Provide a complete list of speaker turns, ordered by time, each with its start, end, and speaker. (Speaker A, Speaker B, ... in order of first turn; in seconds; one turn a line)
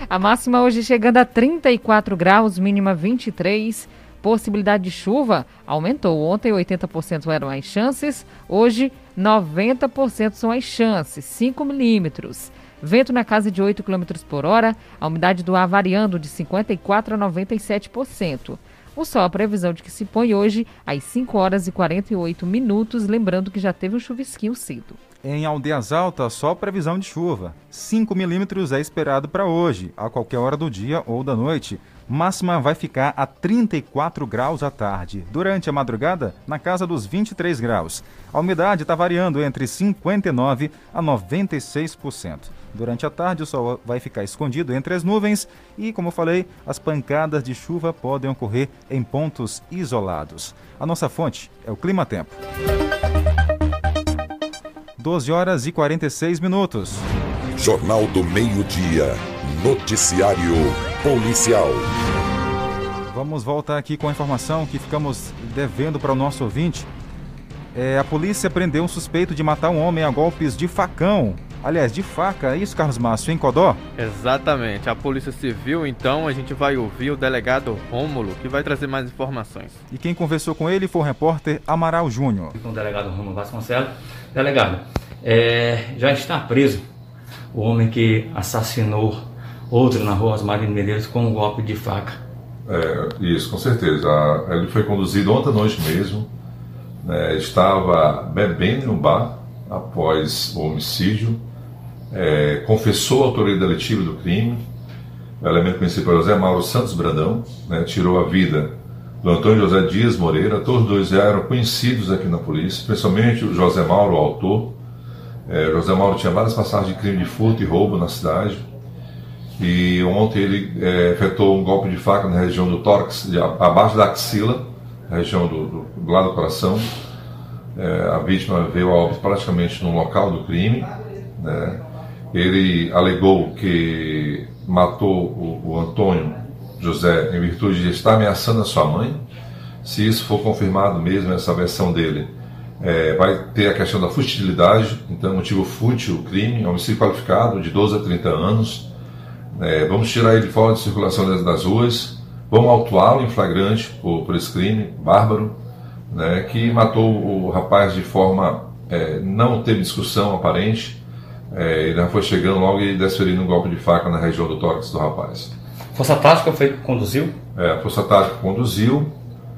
Speaker A: 0.1-25.0
Speaker B: 25.2-52.4
Speaker B: 55.0-57.1
Speaker C: 57.5-61.9
Speaker B: 63.1-66.9
Speaker B: 67.7-73.8
Speaker D: 74.0-79.8
Speaker B: 79.9-82.5
Speaker E: 82.5-86.8
Speaker E: 87.5-92.2
Speaker F: 92.7-96.3
Speaker F: 97.0-101.4
Speaker F: 102.1-104.7
Speaker F: 105.4-114.8
Speaker F: 115.5-118.7
Speaker F: 119.6-126.9
Speaker F: 127.7-139.2
Speaker F: 139.8-148.9
Speaker F: 149.5-155.6
Speaker F: 156.1-161.0
Speaker F: 161.5-165.5
Speaker E: 165.9-167.3
Speaker F: 167.6-169.2